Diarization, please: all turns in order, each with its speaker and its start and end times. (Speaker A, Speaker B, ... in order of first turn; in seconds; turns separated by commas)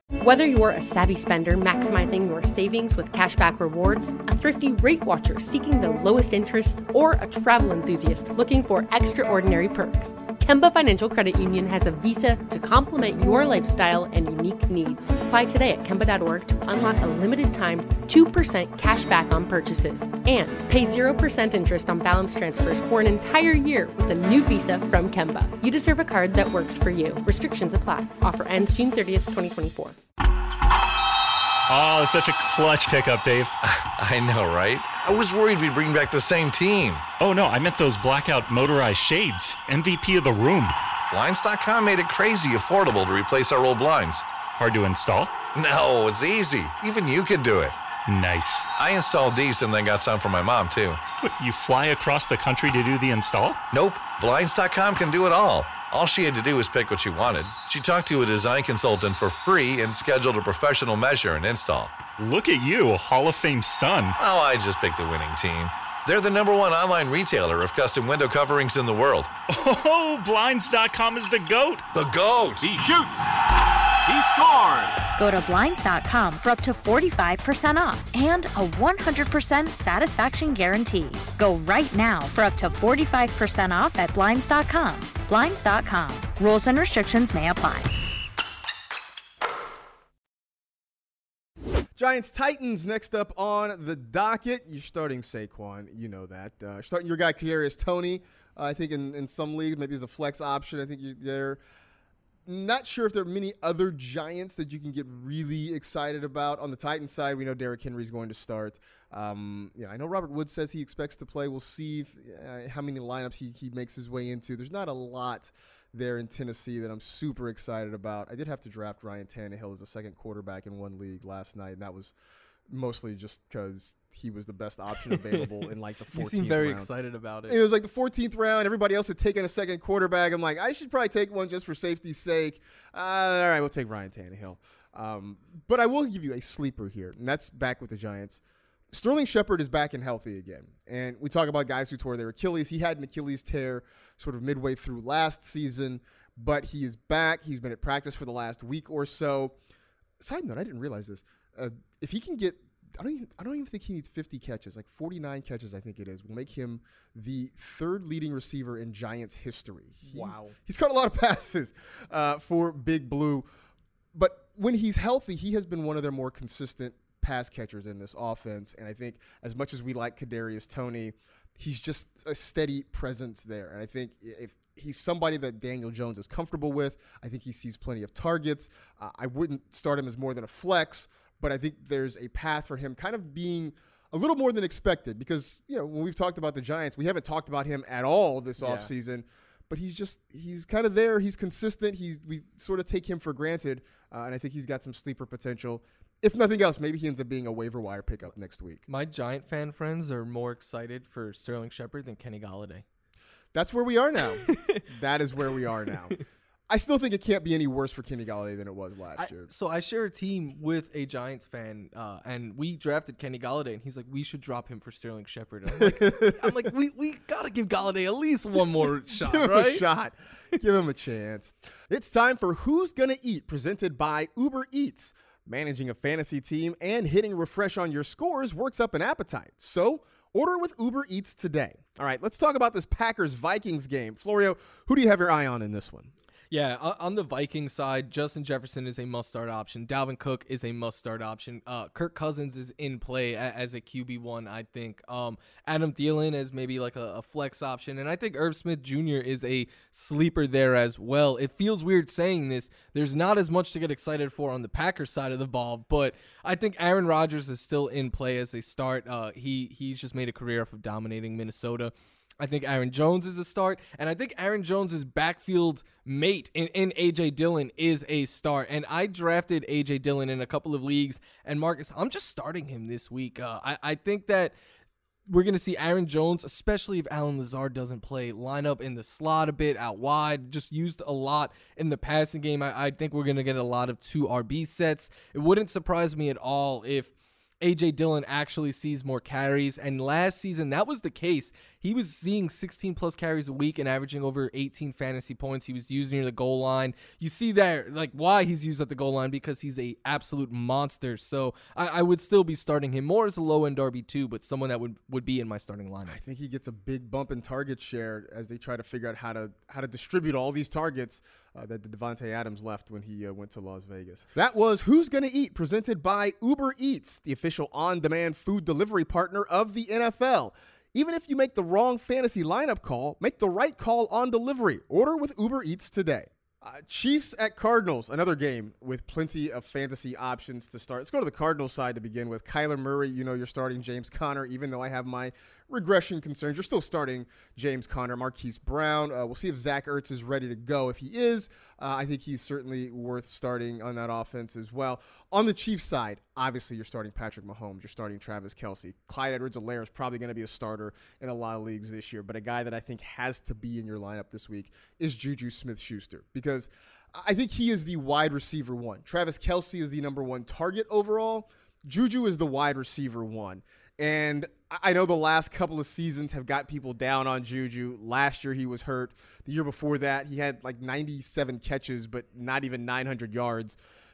Speaker A: 0.2-30.0, Speaker B: 31.7-33.5, Speaker C: 33.8-37.0, Speaker B: 37.2-40.8, Speaker C: 41.1-44.3, Speaker B: 44.5-45.4, Speaker C: 45.5-47.8, Speaker B: 48.1-48.7, Speaker C: 48.8-51.0, Speaker B: 51.2-53.6, Speaker C: 53.7-62.1, Speaker B: 62.1-64.2, Speaker C: 64.2-69.3, Speaker B: 69.5-71.8, Speaker C: 71.9-72.8, Speaker B: 72.8-73.0, Speaker B: 74.1-74.9, Speaker D: 75.2-87.9, Speaker E: 92.0-101.6, Speaker E: 102.5-122.1, Speaker E: 122.7-126.9, Speaker F: 125.2-125.4, Speaker F: 126.1-127.6, Speaker E: 127.5-149.6, Speaker E: 150.2-163.5, Speaker F: 160.0-160.6, Speaker E: 164.1-198.8, Speaker F: 188.6-188.9, Speaker F: 198.9-202.8, Speaker E: 203.5-206.2, Speaker F: 204.6-204.8, Speaker E: 206.7-209.5, Speaker F: 209.2-219.8, Speaker E: 215.7-216.7, Speaker E: 219.1-236.1, Speaker F: 236.5-274.5, Speaker F: 275.3-306.2, Speaker E: 306.1-373.8